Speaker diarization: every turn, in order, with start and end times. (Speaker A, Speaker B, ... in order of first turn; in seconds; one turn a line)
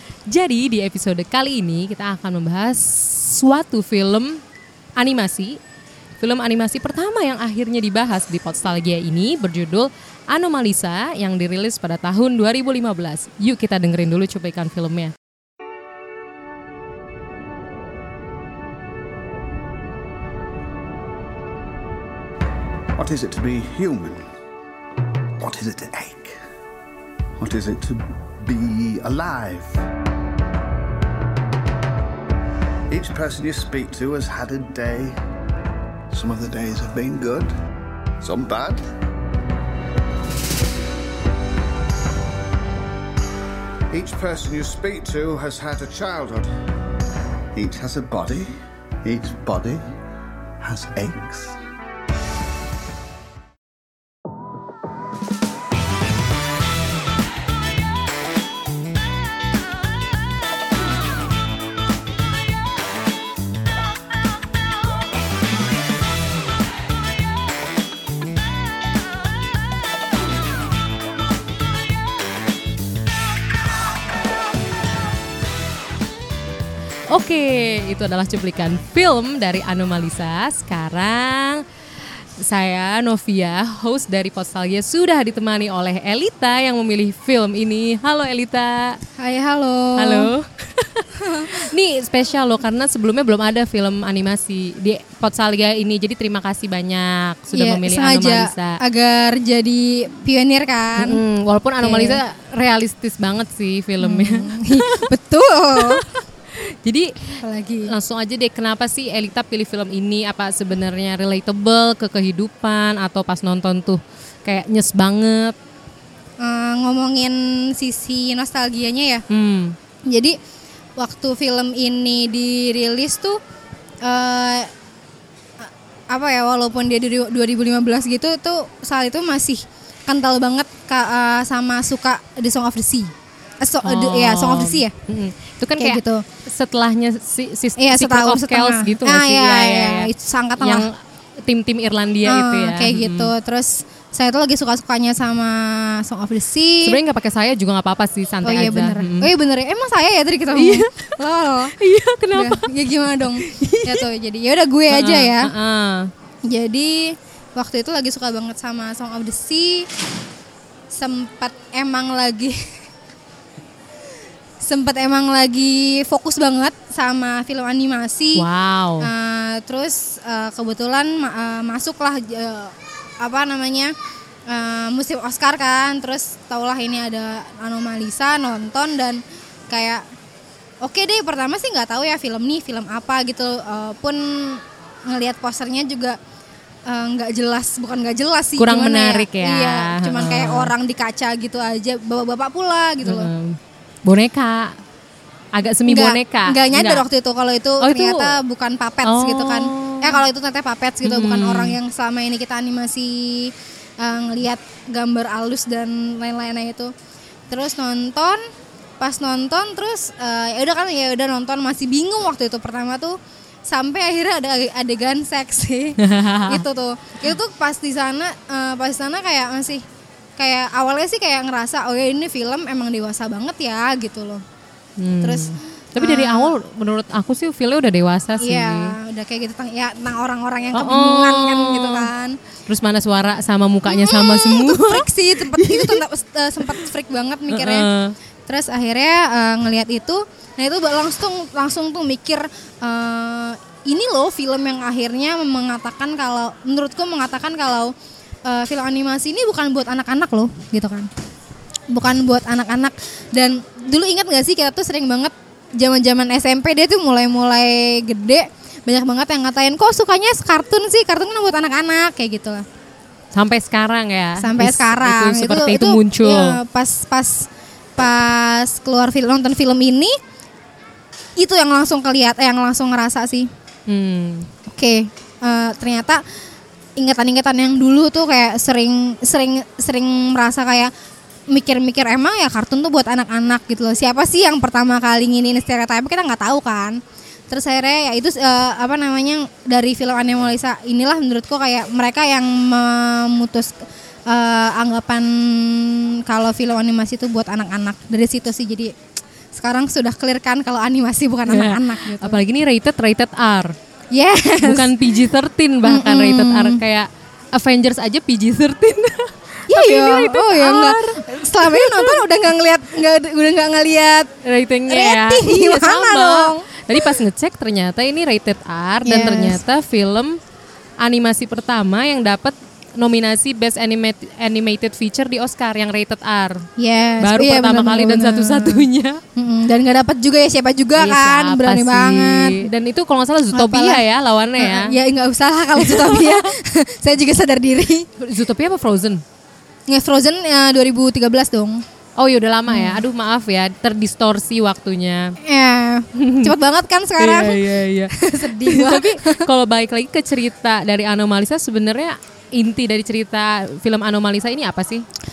Speaker A: 0.3-4.4
Speaker A: 5.0-5.6
Speaker A: 6.2-15.1
Speaker B: 22.9-24.3
Speaker B: 25.4-26.4
Speaker B: 27.4-29.8
Speaker B: 32.9-35.1
Speaker B: 36.1-37.5
Speaker B: 38.2-38.8
Speaker B: 43.9-46.5
Speaker B: 47.5-49.9
Speaker B: 50.6-51.5
Speaker A: 77.1-81.6
Speaker A: 82.4-89.0
Speaker C: 89.2-90.3
Speaker A: 90.0-98.8
Speaker C: 91.2-91.7
Speaker C: 97.5-101.2
Speaker A: 101.0-105.1
Speaker C: 101.8-102.2
Speaker C: 104.0-106.0
Speaker A: 105.8-115.5
Speaker C: 107.4-107.9
Speaker C: 116.4-119.2
Speaker A: 119.3-119.8
Speaker C: 120.0-120.4
Speaker C: 121.0-123.4
Speaker C: 124.0-124.7
Speaker C: 125.6-134.9
Speaker A: 133.8-143.3
Speaker C: 135.8-136.2
Speaker C: 137.8-140.9
Speaker C: 142.2-147.0
Speaker A: 146.8-149.3
Speaker C: 148.4-151.8
Speaker A: 150.5-151.2
Speaker A: 151.8-152.7
Speaker C: 152.3-155.5
Speaker A: 153.4-154.0
Speaker A: 154.9-156.1
Speaker C: 156.4-159.9
Speaker C: 160.9-162.7
Speaker C: 164.6-168.4
Speaker A: 168.3-169.1
Speaker C: 169.0-173.9
Speaker C: 174.5-180.0
Speaker C: 180.8-186.2
Speaker C: 186.8-193.3
Speaker A: 188.6-190.7
Speaker A: 193.0-194.8
Speaker A: 195.5-197.0
Speaker C: 195.8-206.9
Speaker A: 197.8-198.4
Speaker A: 199.0-200.2
Speaker A: 201.0-201.8
Speaker C: 207.5-208.4
Speaker C: 209.0-219.8
Speaker A: 216.0-216.6
Speaker C: 220.4-224.4
Speaker A: 225.0-228.9
Speaker C: 225.2-226.5
Speaker C: 228.4-232.4
Speaker A: 230.7-232.1
Speaker A: 232.7-236.0
Speaker C: 233.8-237.9
Speaker A: 237.5-238.1
Speaker C: 238.5-247.9
Speaker C: 248.4-251.1
Speaker C: 251.9-262.6
Speaker A: 263.3-266.6
Speaker C: 264.4-270.1
Speaker C: 271.4-273.5
Speaker A: 273.9-274.5
Speaker C: 274.6-276.2
Speaker C: 277.0-280.9
Speaker C: 281.5-298.9
Speaker C: 299.5-302.4
Speaker A: 301.5-303.7
Speaker C: 304.1-305.1
Speaker A: 304.6-312.2
Speaker C: 305.8-306.8
Speaker C: 309.7-314.3
Speaker A: 314.4-320.4
Speaker C: 314.9-317.2
Speaker C: 319.0-319.6
Speaker A: 321.0-326.6
Speaker C: 326.8-332.7
Speaker A: 327.2-329.2
Speaker A: 330.9-334.9
Speaker C: 333.5-334.0
Speaker C: 334.6-338.1
Speaker A: 335.8-336.5
Speaker A: 338.2-339.2
Speaker C: 339.9-341.8
Speaker A: 342.2-345.4
Speaker C: 342.7-343.0
Speaker C: 345.4-349.5
Speaker A: 346.1-346.5
Speaker A: 347.2-355.0